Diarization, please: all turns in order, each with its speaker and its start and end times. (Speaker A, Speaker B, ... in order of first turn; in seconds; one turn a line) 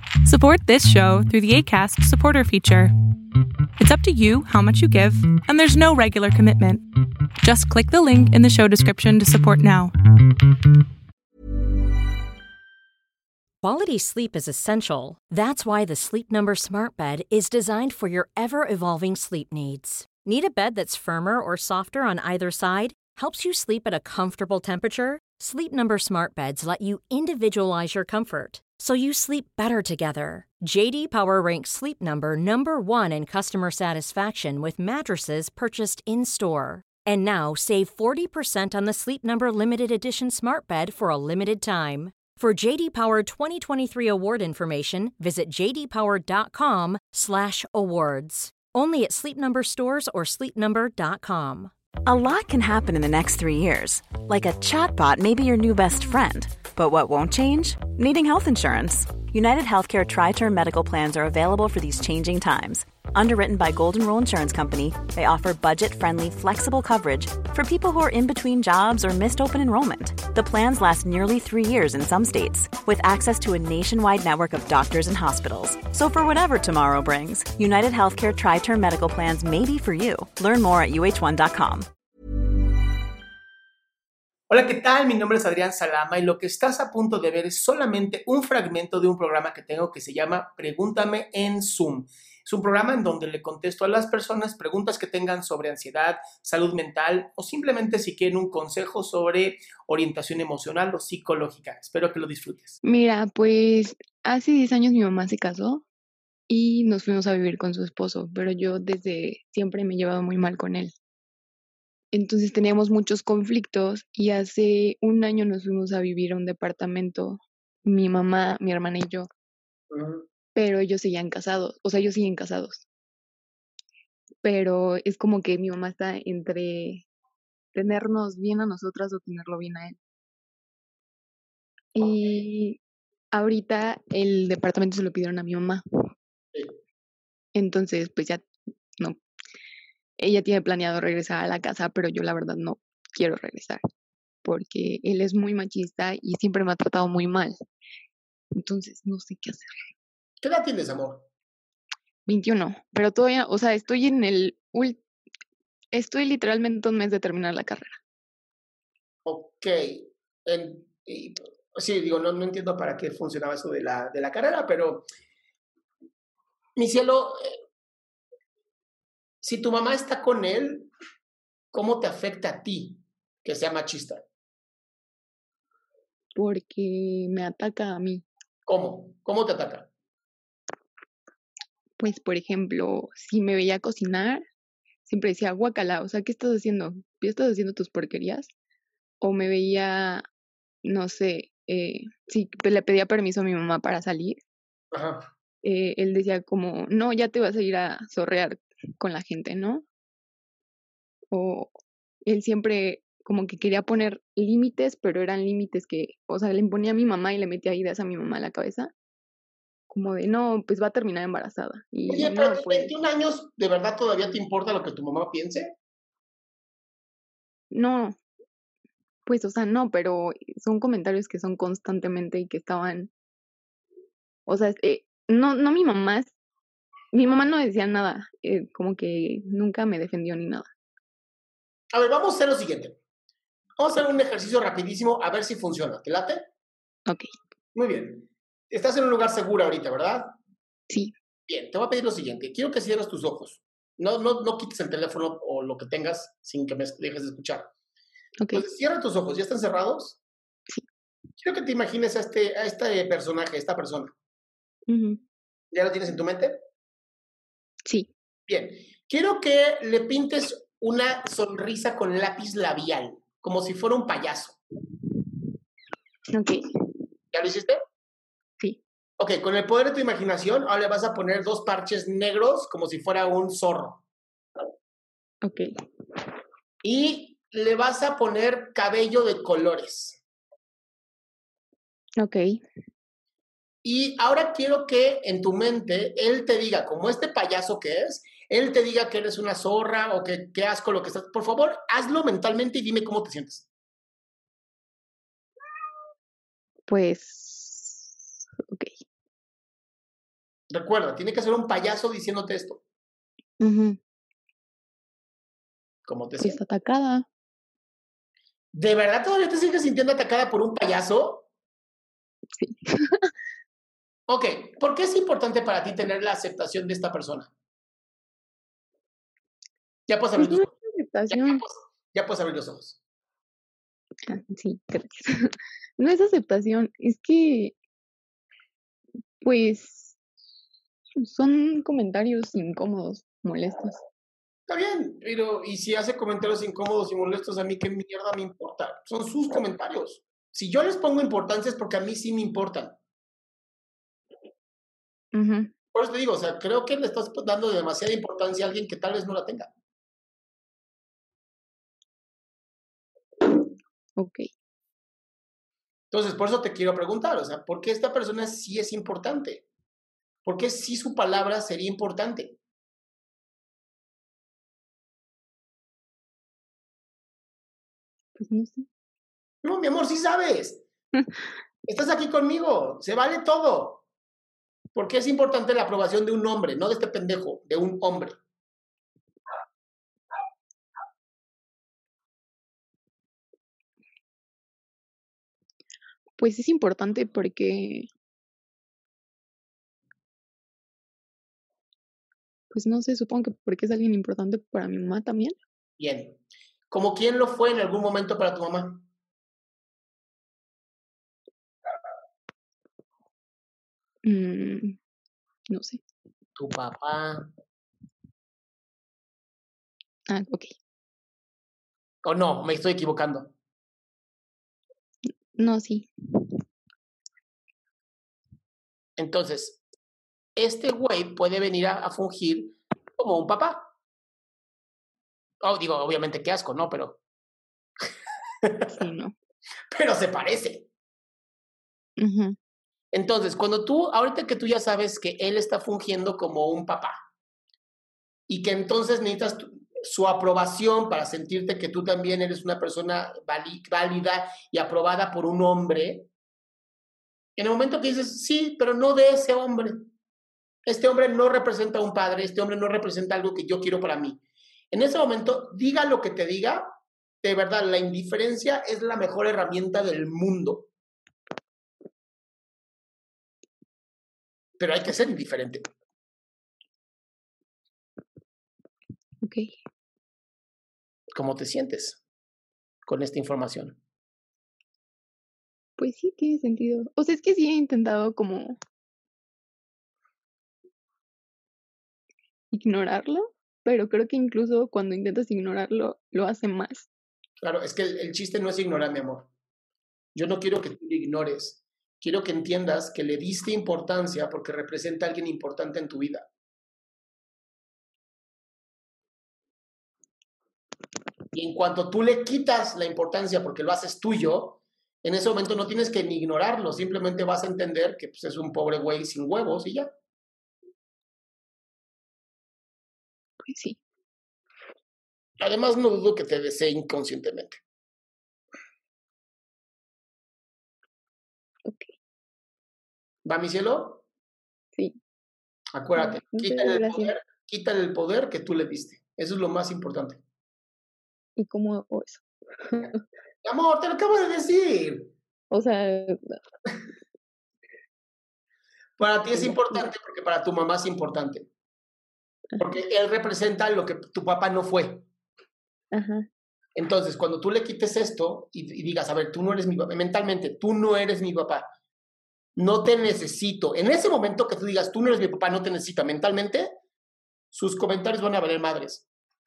Speaker A: 0.2-2.9
Speaker A: 3.8-6.8
Speaker A: 7.4-9.9
Speaker B: 13.6-51.7
Speaker C: 52.0-81.9
Speaker D: 84.5-102.8
Speaker E: 102.8-105.8
Speaker E: 106.5-110.9
Speaker E: 112.1-119.3
Speaker D: 119.9-120.2
Speaker E: 120.5-122.8
Speaker E: 124.4-127.0
Speaker E: 127.7-130.0
Speaker E: 131.9-132.8
Speaker E: 133.3-135.8
Speaker E: 137.5-138.4
Speaker E: 140.2-143.8
Speaker E: 144.4-147.6
Speaker E: 148.5-149.9
Speaker D: 150.4-151.2
Speaker E: 152.2-155.0
Speaker E: 155.9-158.0
Speaker D: 159.2-165.1
Speaker D: 166.8-167.6
Speaker D: 169.4-170.9
Speaker D: 171.7-174.2
Speaker E: 176.3-178.2
Speaker D: 178.7-179.9
Speaker E: 182.0-184.4
Speaker E: 185.0-188.5
Speaker E: 189.2-190.2
Speaker E: 190.8-194.4
Speaker D: 194.9-195.3
Speaker E: 195.6-199.8
Speaker E: 201.3-201.7
Speaker E: 202.2-208.9
Speaker E: 209.9-212.9
Speaker D: 212.1-215.7
Speaker E: 217.7-218.2
Speaker E: 219.2-223.1
Speaker E: 224.4-226.3
Speaker E: 227.1-230.7
Speaker D: 231.9-233.0
Speaker D: 233.8-236.4
Speaker D: 237.7-240.3
Speaker D: 241.5-247.7
Speaker D: 248.5-250.2
Speaker D: 251.4-254.1
Speaker E: 254.9-255.2
Speaker D: 255.7-256.6
Speaker E: 257.9-258.1
Speaker D: 258.5-264.6
Speaker E: 266.3-266.6
Speaker D: 267.3-267.8
Speaker D: 269.2-274.0
Speaker D: 276.8-280.2
Speaker E: 282.2-282.6
Speaker D: 283.8-293.7
Speaker E: 296.9-299.0
Speaker D: 300.7-302.8
Speaker E: 303.6-304.0
Speaker D: 306.1-306.6
Speaker E: 306.4-307.2
Speaker D: 308.7-311.4
Speaker E: 312.6-313.3
Speaker D: 314.3-317.5
Speaker D: 320.1-320.7
Speaker E: 320.4-321.6
Speaker D: 321.3-323.0
Speaker E: 324.3-327.7
Speaker E: 329.4-330.2
Speaker E: 331.2-334.0
Speaker D: 334.7-342.9
Speaker E: 345.3-345.7
Speaker D: 345.9-349.7
Speaker E: 354.2-354.5
Speaker D: 356.1-359.6
Speaker D: 360.4-362.6
Speaker E: 368.4-368.9
Speaker D: 369.6-370.8
Speaker D: 371.9-374.0
Speaker D: 374.9-378.4
Speaker E: 386.4-388.1
Speaker E: 392.7-395.6
Speaker D: 396.0-396.4
Speaker D: 396.9-399.0
Speaker E: 404.2-405.0
Speaker E: 405.7-406.0
Speaker D: 406.6-407.5
Speaker E: 410.3-410.7
Speaker D: 412.2-413.5
Speaker E: 415.5-416.1
Speaker D: 419.2-419.8
Speaker D: 420.6-423.9
Speaker D: 425.6-427.2
Speaker E: 428.9-429.3
Speaker D: 429.9-430.9
Speaker E: 432.2-432.6
Speaker D: 433.1-437.2
Speaker D: 438.5-446.3
Speaker D: 447.6-450.0
Speaker D: 450.9-454.4
Speaker D: 454.9-456.8
Speaker D: 457.4-460.9
Speaker D: 464.8-465.8
Speaker E: 469.4-469.7
Speaker D: 471.3-472.2
Speaker D: 473.1-474.0
Speaker E: 476.0-478.8
Speaker E: 482.7-487.1
Speaker D: 487.6-489.5
Speaker D: 490.4-496.5
Speaker D: 501.5-510.1
Speaker E: 513.6-514.0
Speaker D: 515.6-517.8
Speaker D: 523.5-524.2
Speaker D: 525.9-530.4
Speaker E: 526.1-527.3
Speaker E: 531.6-533.2
Speaker D: 533.6-535.3
Speaker E: 535.7-536.6
Speaker D: 539.2-541.7
Speaker E: 539.5-540.1
Speaker D: 542.8-545.2
Speaker E: 546.1-546.5
Speaker D: 547.0-551.8
Speaker D: 552.8-556.9
Speaker D: 557.7-559.2